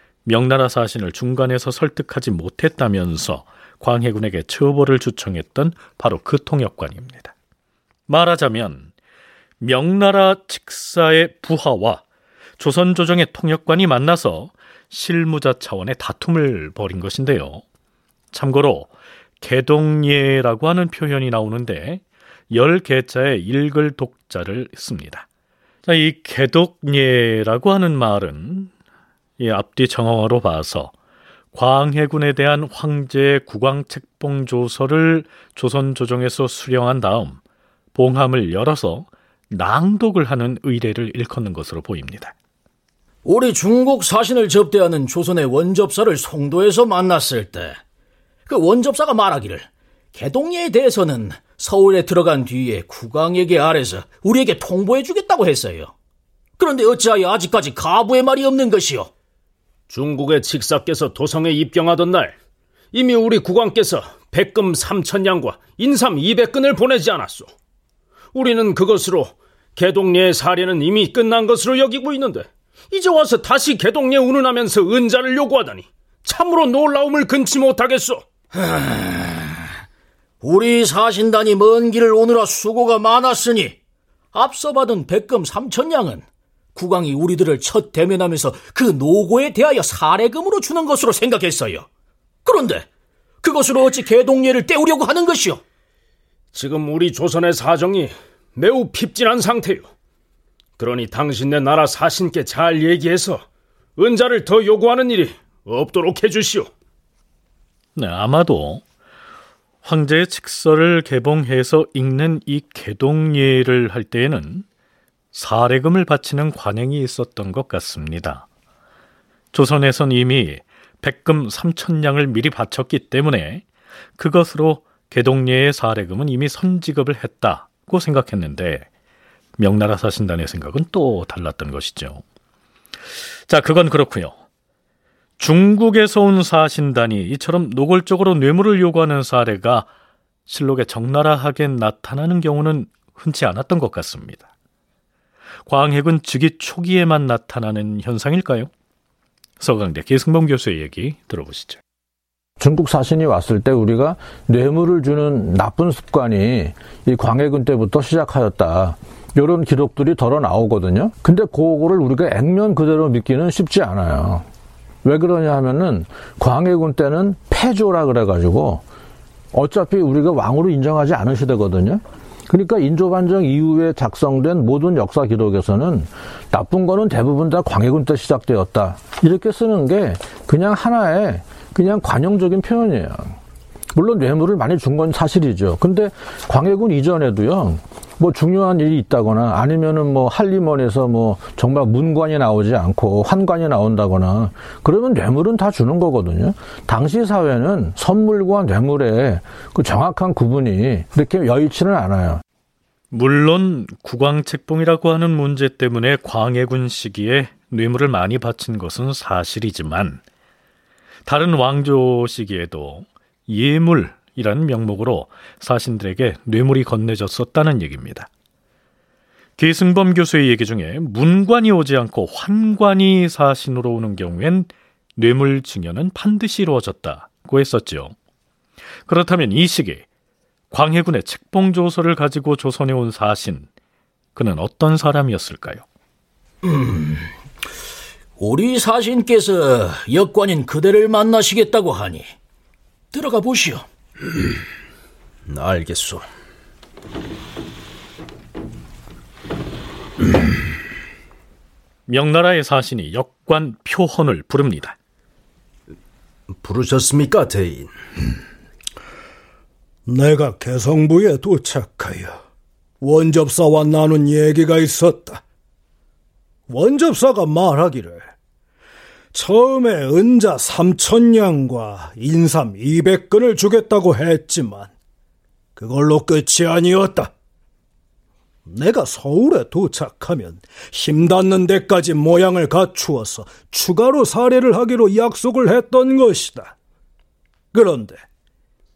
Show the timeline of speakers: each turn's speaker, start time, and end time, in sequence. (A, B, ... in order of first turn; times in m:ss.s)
0:00.2-0:07.3 A
0:08.1-0:08.9 A
0:09.6-0:12.0 A
0:12.6-0:17.6 A
0:18.3-0:25.2 A
0:25.8-0:28.7 A
0:29.4-0:30.9 A
0:31.5-0:37.4 A
0:37.9-0:42.3 A
0:43.2-0:47.8 B
0:48.5-0:55.9 B
0:56.6-0:59.1 B
0:59.9-1:02.3 C
1:02.9-1:07.5 C
1:08.3-1:18.2 C
1:18.7-1:19.4 B
1:20.4-1:23.8 B
1:24.3-1:31.8 B
1:32.4-1:32.8 B
1:33.4-1:35.6 B
1:36.5-1:39.8 C
1:40.8-1:43.4 C
1:44.0-1:46.7 C
1:48.0-1:48.8 A
1:49.8-1:54.6 A
1:55.3-1:58.4 A
1:59.5-2:03.6 A
2:04.2-2:08.9 A
2:09.6-2:12.2 A
2:13.5-2:14.4 A
2:15.4-2:19.9 A
2:20.5-2:24.4 A
2:25.6-2:28.7 A
2:29.6-2:31.8 A
2:32.6-2:44.4 D
2:45.0-2:48.8 D
2:49.5-3:03.4 D
3:03.9-3:22.4 D
3:23.1-3:30.2 A
3:31.2-3:38.3 A
3:39.6-3:48.1 A
3:49.0-3:50.0 A
3:50.7-3:53.7 A
3:54.4-3:55.8 A
3:56.7-3:57.2 B
3:58.4-4:02.3 B
4:03.1-4:03.8 B
4:05.5-4:06.0 C
4:05.6-4:06.2 B
4:12.1-4:15.0 A
4:16.6-4:17.9 C
4:20.0-4:22.4 E
4:23.0-4:25.4 E
4:26.7-4:28.3 E
4:29.3-4:34.9 E
4:35.8-4:37.3 E
4:38.6-4:46.7 E
4:47.7-4:48.2 E